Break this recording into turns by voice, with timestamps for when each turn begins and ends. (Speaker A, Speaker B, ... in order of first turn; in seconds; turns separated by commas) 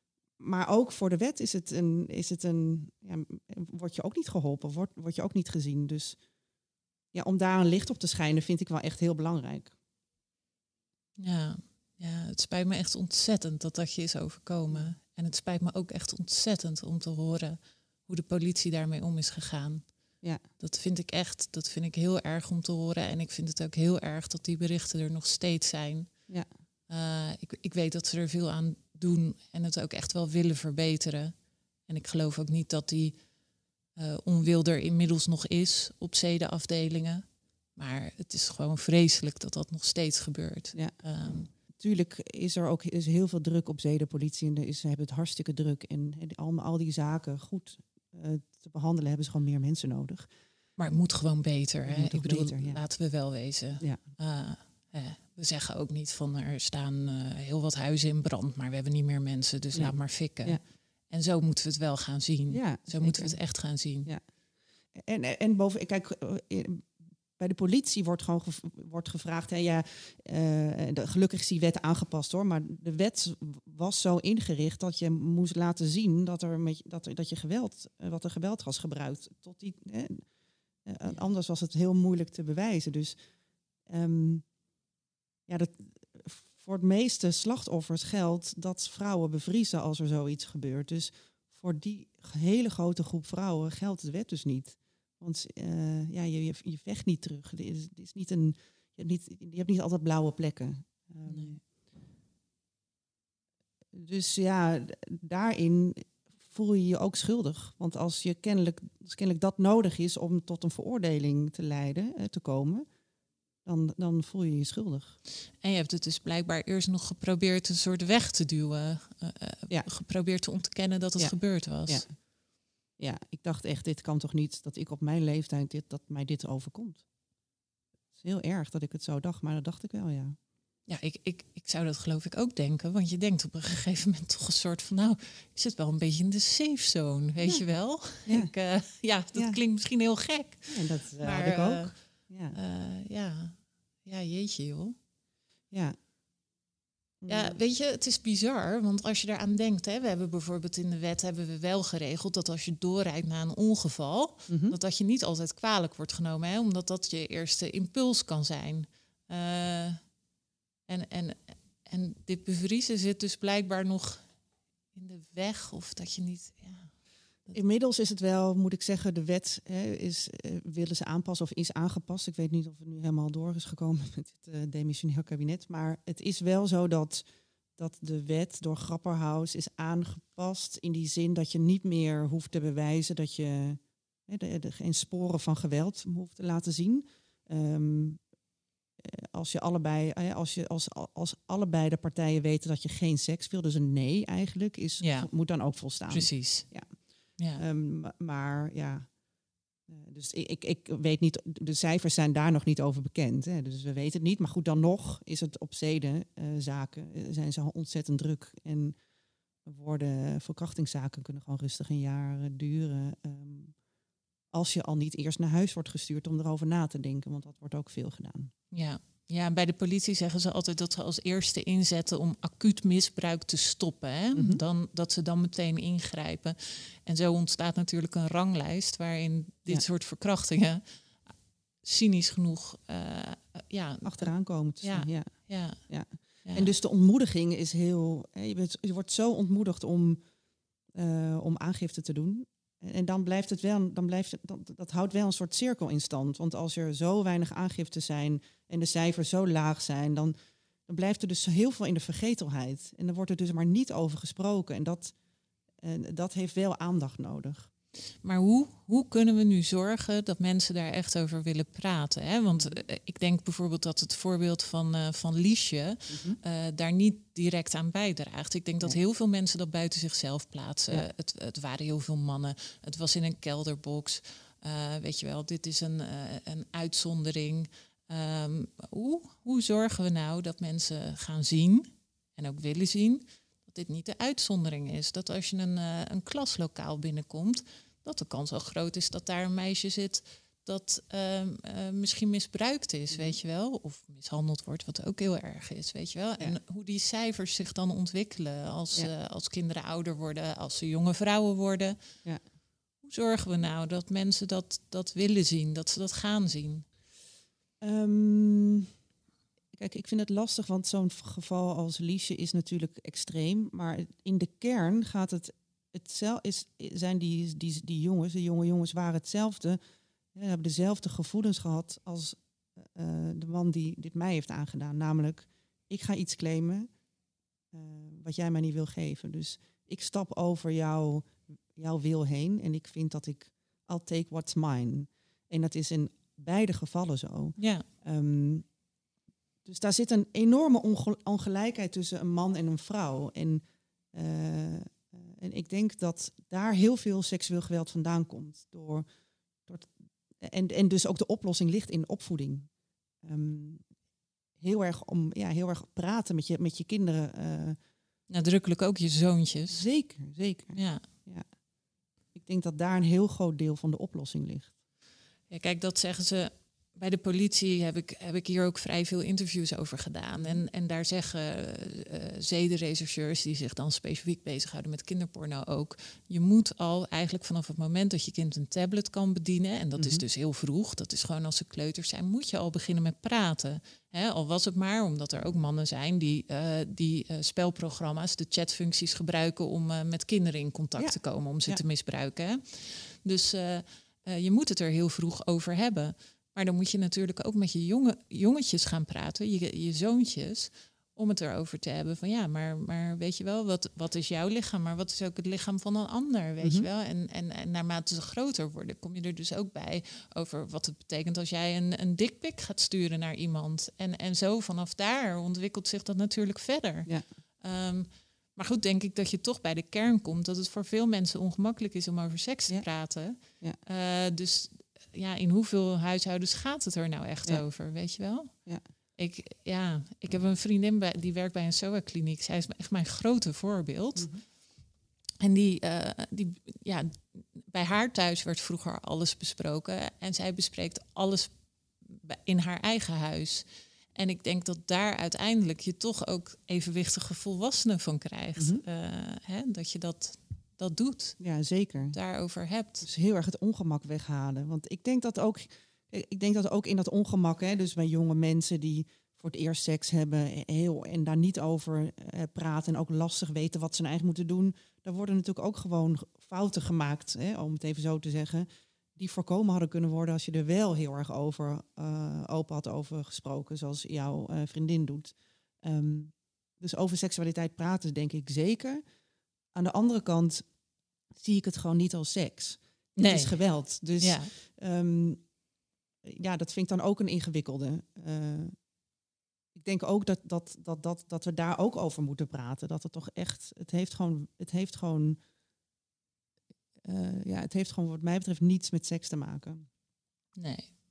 Speaker A: 0.4-6.2, Speaker A: 7.1-9.7, Speaker B: 11.2-19.9, Speaker B: 20.6-26.1, Speaker B: 26.9-31.3, Speaker B: 31.9-33.1, Speaker B: 34.0-37.2, Speaker B: 37.8-41.5, Speaker A: 41.7-50.3, Speaker B: 50.8-64.1, Speaker A: 51.9-52.8, Speaker A: 59.7-60.6, Speaker A: 62.5-63.4, Speaker A: 64.9-80.2, Speaker A: 80.8-83.2, Speaker A: 83.8-84.5, Speaker A: 85.5-101.6, Speaker B: 101.3-101.6, Speaker A: 103.9-112.8, Speaker A: 113.6-115.2, Speaker B: 115.6-122.0, Speaker A: 121.2-122.2, Speaker A: 123.0-127.0, Speaker A: 128.2-130.4, Speaker B: 130.9-141.9, Speaker A: 137.4-138.5, Speaker A: 139.3-139.6, Speaker A: 140.7-142.6, Speaker B: 142.5-144.9, Speaker A: 145.7-146.0, Speaker A: 147.2-147.6, Speaker B: 147.3-160.0, Speaker A: 154.5-154.8, Speaker B: 160.9-164.2, Speaker B: 164.9-166.9, Speaker A: 167.5-177.2, Speaker A: 177.8-188.2, Speaker A: 189.0-197.0, Speaker B: 195.0-195.3, Speaker B: 196.1-196.7, Speaker A: 197.5-199.1, Speaker A: 199.9-209.0, Speaker A: 209.6-213.7, Speaker A: 214.5-218.5, Speaker B: 218.7-230.8, Speaker A: 224.3-224.6, Speaker B: 231.8-234.3, Speaker A: 234.0-240.2, Speaker B: 234.8-235.8, Speaker B: 236.4-236.7, Speaker A: 240.9-250.3, Speaker A: 250.9-255.1, Speaker A: 255.8-257.7, Speaker B: 258.2-302.0, Speaker A: 266.1-266.4, Speaker B: 303.0-306.9, Speaker A: 307.8-308.9, Speaker A: 309.7-319.8, Speaker A: 320.3-326.9, Speaker A: 327.7-338.6, Speaker B: 337.6-337.9, Speaker A: 339.6-349.1, Speaker A: 349.6-352.7, Speaker A: 353.2-353.8, Speaker A: 354.6-357.8, Speaker B: 358.3-359.9, Speaker A: 359.7-361.4, Speaker B: 360.8-361.0, Speaker A: 362.3-364.7, Speaker B: 365.5-417.1, Speaker A: 380.0-380.2, Speaker A: 391.0-391.8, Speaker B: 417.6-428.5, Speaker A: 423.4-423.8, Speaker B: 429.2-434.3, Speaker A: 434.2-434.4, Speaker B: 435.4-441.5, Speaker B: 442.1-443.6, Speaker B: 444.1-451.4, Speaker A: 448.6-448.8, Speaker A: 451.4-452.1, Speaker B: 452.1-453.1, Speaker A: 453.0-479.0, Speaker A: 479.7-480.7, Speaker A: 481.3-485.4, Speaker B: 483.1-483.6, Speaker B: 484.2-484.5, Speaker A: 486.2-488.8, Speaker A: 489.7-495.4, Speaker A: 497.0-499.9, Speaker B: 500.6-500.9